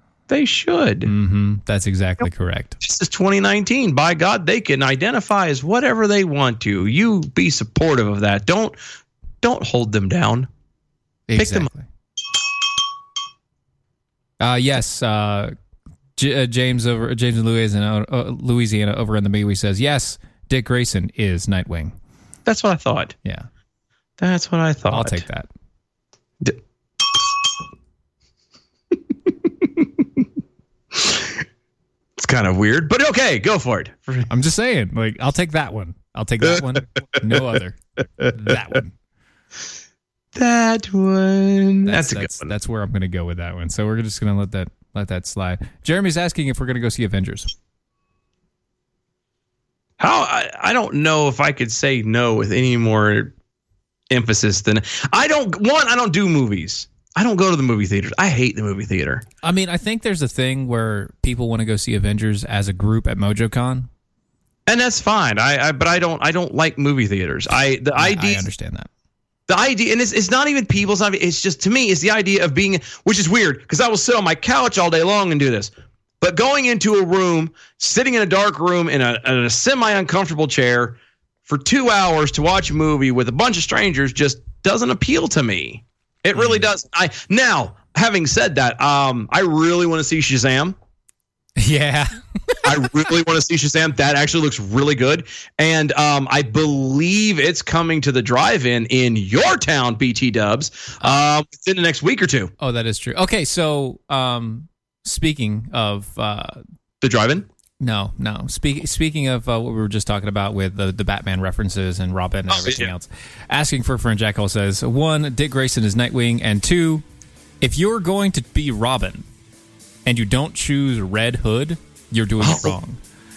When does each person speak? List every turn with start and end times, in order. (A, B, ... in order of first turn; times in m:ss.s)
0:00.3-0:01.1 A
0:01.0-0:02.8 B
0:02.8-0:08.8 A
0:09.4-0:10.5 A
0:11.3-0:11.9 B
0:11.4-0:11.7 A
0:14.4-0:15.5 B
0:16.2-0:22.0 B
0:22.5-0:23.1 A
0:24.2-0:25.2 A
0:24.9-0:25.5 B
0:29.5-0:29.9 A
0:30.9-0:31.4 A
0:32.2-0:34.3 A
0:34.3-0:38.9 B
0:37.2-0:37.6 A
0:40.4-0:42.5 A
0:41.9-0:47.5 B
0:50.0-0:53.3 A
0:54.1-0:59.2 A
0:59.4-1:03.9 B
1:04.7-1:08.5 A
1:08.0-1:08.9 B
1:09.5-1:30.8 A
1:26.4-1:26.7 B
1:31.6-1:33.1 B
1:32.6-1:42.5 A
1:42.6-1:46.6 B
1:47.0-1:47.5 A
1:47.8-1:57.0 B
1:52.5-1:52.9 A
1:57.6-1:59.2 B
2:00.0-2:03.0 B
2:02.4-2:02.8 A